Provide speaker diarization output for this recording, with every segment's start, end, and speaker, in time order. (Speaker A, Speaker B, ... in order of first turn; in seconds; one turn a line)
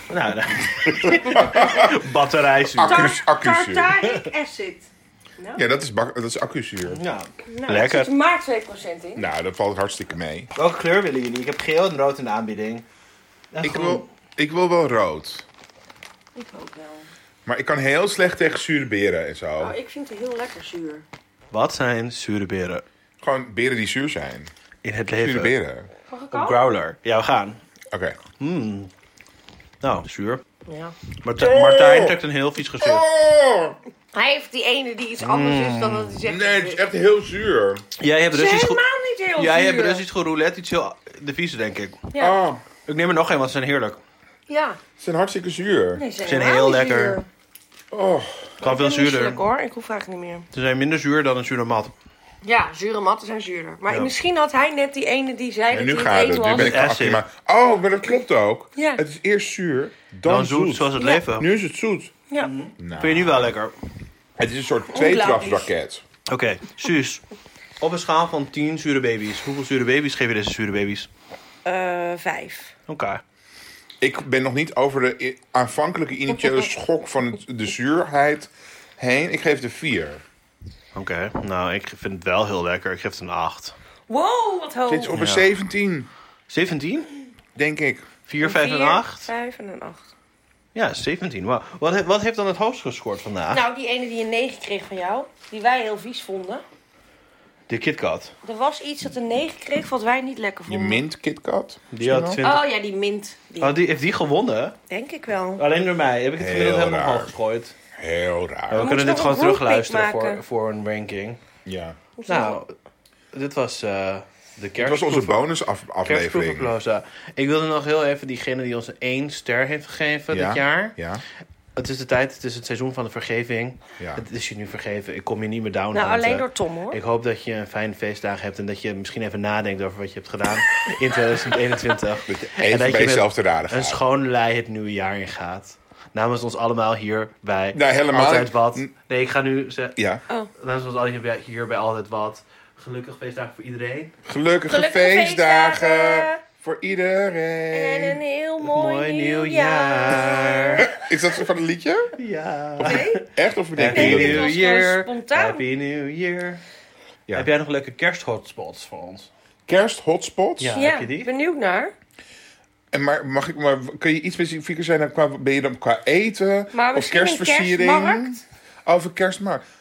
Speaker A: 0.1-3.1
Speaker B: 1.0-1.9
Speaker B: 2.8-4.0
Speaker C: 2.8-5.6
Speaker B: 5.5-7.0
Speaker A: 6.9-8.1
Speaker C: 7.5-9.2
Speaker B: 9.2-10.5
Speaker A: 10.6-12.8
Speaker A: 13.5-14.1
Speaker B: 13.6-15.4
Speaker C: 16.4-17.1
Speaker B: 17.5-19.8
Speaker C: 19.6-21.1
Speaker A: 21.5-22.8
Speaker B: 23.2-24.5
Speaker A: 24.8-25.5
Speaker B: 25.1-25.9
Speaker C: 26.1-26.7
Speaker A: 26.3-27.6
Speaker B: 27.9-28.2
Speaker A: 28.4-28.9
Speaker A: 29.8-30.4
Speaker C: 30.7-31.0
Speaker A: 31.2-33.0
Speaker B: 31.4-32.2
Speaker B: 32.8-33.8
Speaker C: 34.1-36.8
Speaker A: 35.2-36.2
Speaker B: 36.2-37.8
Speaker A: 38.0-38.8
Speaker C: 38.3-40.0
Speaker A: 39.4-42.1
Speaker B: 42.2-42.6
Speaker A: 42.9-44.0
Speaker C: 44.5-44.8
Speaker B: 45.0-46.0
Speaker C: 46.0-47.3
Speaker A: 46.2-47.2
Speaker B: 47.9-48.5
Speaker A: 48.6-49.4
Speaker C: 48.6-50.5
Speaker A: 50.5-51.9
Speaker C: 52.4-56.8
Speaker A: 53.9-54.1
Speaker B: 55.7-62.1
Speaker A: 56.5-57.2
Speaker A: 60.2-61.5
Speaker C: 61.0-61.3
Speaker A: 62.4-63.7
Speaker B: 62.8-63.5
Speaker B: 64.4-66.0
Speaker C: 64.9-65.7
Speaker A: 66.3-67.2
Speaker A: 67.8-71.1
Speaker C: 71.7-72.7
Speaker A: 72.9-73.2
Speaker B: 74.0-80.2
Speaker A: 80.9-83.8
Speaker C: 84.1-85.2
Speaker B: 84.9-86.1
Speaker A: 85.1-85.5
Speaker A: 86.5-87.1
Speaker B: 87.5-88.0
Speaker A: 88.3-89.3
Speaker C: 88.4-90.1
Speaker A: 90.8-93.6
Speaker C: 93.5-96.6
Speaker A: 97.7-98.3
Speaker C: 98.4-101.0
Speaker B: 100.7-102.4
Speaker A: 101.9-102.6
Speaker C: 102.4-103.8
Speaker A: 103.6-104.8
Speaker C: 104.9-105.6
Speaker A: 105.6-107.8
Speaker B: 106.4-107.3
Speaker B: 108.0-108.9
Speaker A: 108.7-111.4
Speaker C: 108.7-110.4
Speaker B: 111.7-112.0
Speaker C: 112.2-112.6
Speaker A: 112.3-112.7
Speaker A: 113.3-115.4
Speaker B: 114.8-116.7
Speaker A: 116.0-121.0
Speaker B: 120.3-121.2
Speaker A: 121.8-140.0
Speaker B: 124.0-124.2
Speaker C: 125.9-127.0
Speaker B: 132.2-134.0
Speaker B: 137.7-138.9
Speaker B: 140.0-140.2
Speaker A: 140.6-144.1
Speaker B: 144.2-148.2
Speaker C: 144.7-146.4
Speaker C: 147.7-151.1
Speaker A: 148.6-150.9
Speaker B: 150.8-152.2
Speaker A: 152.2-153.2
Speaker B: 152.8-154.6
Speaker C: 152.8-153.3
Speaker A: 153.8-156.6
Speaker C: 153.9-155.6
Speaker A: 157.3-159.3
Speaker B: 159.7-160.8
Speaker A: 160.6-161.3
Speaker C: 160.8-161.9
Speaker B: 162.9-169.7
Speaker C: 166.7-168.4